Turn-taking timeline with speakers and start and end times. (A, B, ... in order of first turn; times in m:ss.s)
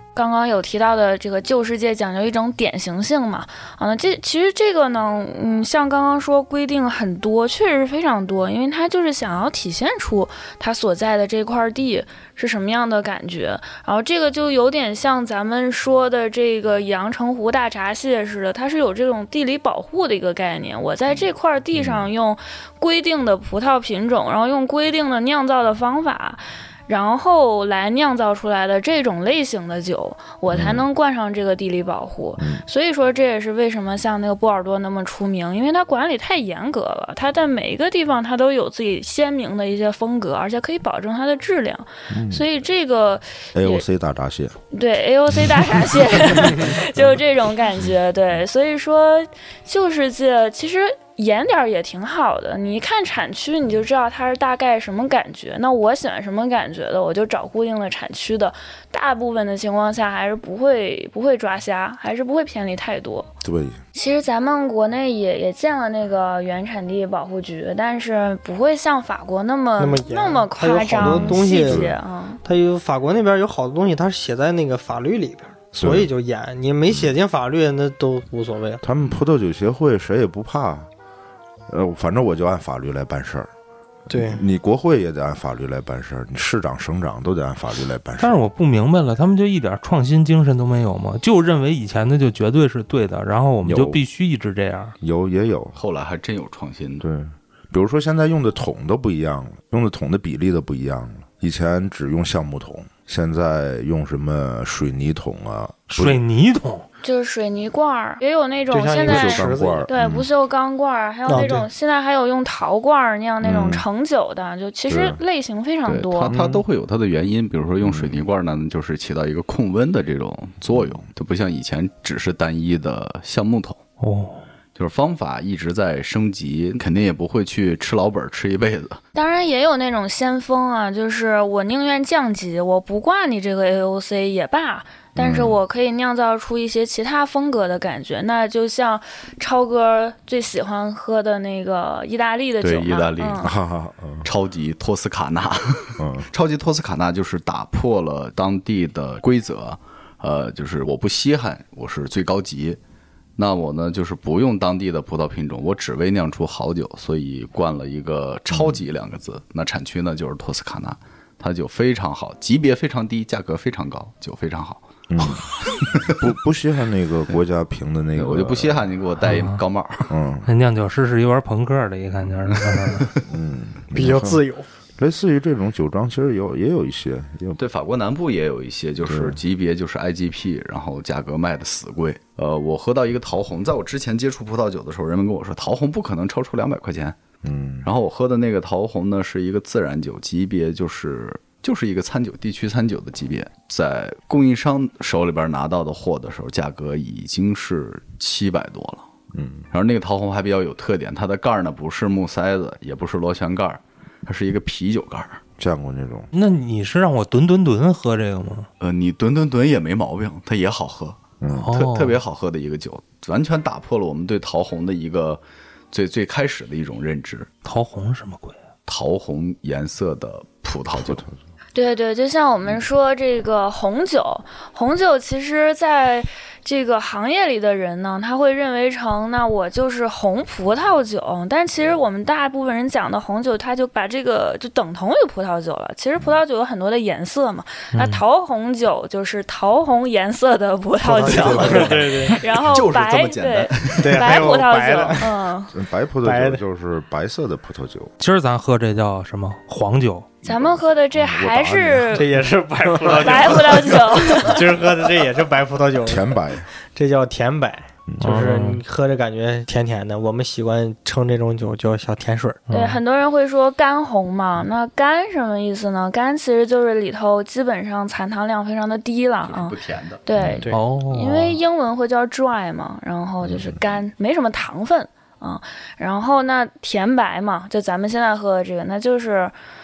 0:00.2-0:43.8 A
0:21.8-0:22.1 B
0:30.5-0:30.8 B
0:32.4-0:32.6 B
0:42.1-0:42.4 B
0:43.6-0:44.6 B
0:44.7-1:03.3 A
0:46.5-0:46.8 B
1:03.4-1:03.8 B
1:04.0-1:12.4 A
1:09.8-1:11.9 C
1:11.0-1:11.9 B
1:12.4-1:18.8 C
1:15.8-1:16.1 B
1:18.8-1:20.9 B
1:21.7-1:23.5 B
1:24.1-1:28.5 B
1:24.1-1:24.4 C
1:28.2-1:35.0 D
1:33.6-1:34.0 B
1:35.0-1:35.8 B
1:35.8-1:37.0 E
1:37.0-1:46.2 B
1:45.9-1:46.9 D
1:47.0-1:56.4 A
1:48.7-1:49.9 C
1:49.1-1:50.3 B
1:51.3-1:51.7 C
1:53.4-1:53.8 B
1:54.9-1:55.2 B
1:55.9-2:03.8 E
1:56.3-1:56.6 B
1:57.8-1:58.2 B
2:00.7-2:01.1 B
2:04.0-2:04.4 D
2:04.8-2:09.0 E
2:09.2-2:23.5 A
2:15.2-2:15.6 B
2:22.6-2:23.5 E
2:23.4-2:24.3 B
2:24.2-2:32.8 E
2:26.0-2:26.3 B
2:33.4-2:46.2 E
2:38.5-2:38.8 B
2:45.1-2:45.4 B
2:46.0-2:48.9 B
2:48.2-2:50.1 E
2:49.3-2:49.6 D
2:50.1-2:50.5 B
2:50.4-2:53.1 D
2:52.7-2:53.0 E
2:53.3-2:54.4 B
2:54.0-2:54.7 C
2:55.0-2:57.6 B
2:57.6-3:07.2 E
2:59.1-2:59.4 B
3:07.4-3:07.9 B
3:07.8-3:19.1 E
3:19.3-3:19.7 B
3:19.7-3:25.4 E
3:25.6-3:26.3 B
3:26.3-3:28.7 D
3:28.8-3:37.5 E
3:31.4-3:31.7 B
3:31.6-3:32.2 D
3:37.6-3:38.6 D
3:38.9-3:41.2 E
3:40.9-3:41.3 B
3:41.8-4:05.7 A
3:57.9-3:58.2 D
4:01.0-4:02.4 C
4:01.4-4:01.9 B
4:01.5-4:04.5 E
4:04.0-4:05.3 C
4:05.7-4:08.1 B
4:06.2-4:06.6 C
4:08.2-4:10.3 D
4:10.4-4:12.4 B
4:10.4-4:12.3 A
4:12.2-4:16.3 C
4:13.0-4:13.9 B
4:13.1-4:14.7 A
4:16.0-4:16.7 B
4:16.9-4:22.6 C
4:18.1-4:18.4 B
4:18.2-4:18.8 D
4:22.7-4:23.0 D
4:22.7-4:39.6 A
4:29.4-4:30.2 E
4:30.4-4:30.6 B
4:30.7-4:31.6 D
4:33.4-4:33.7 B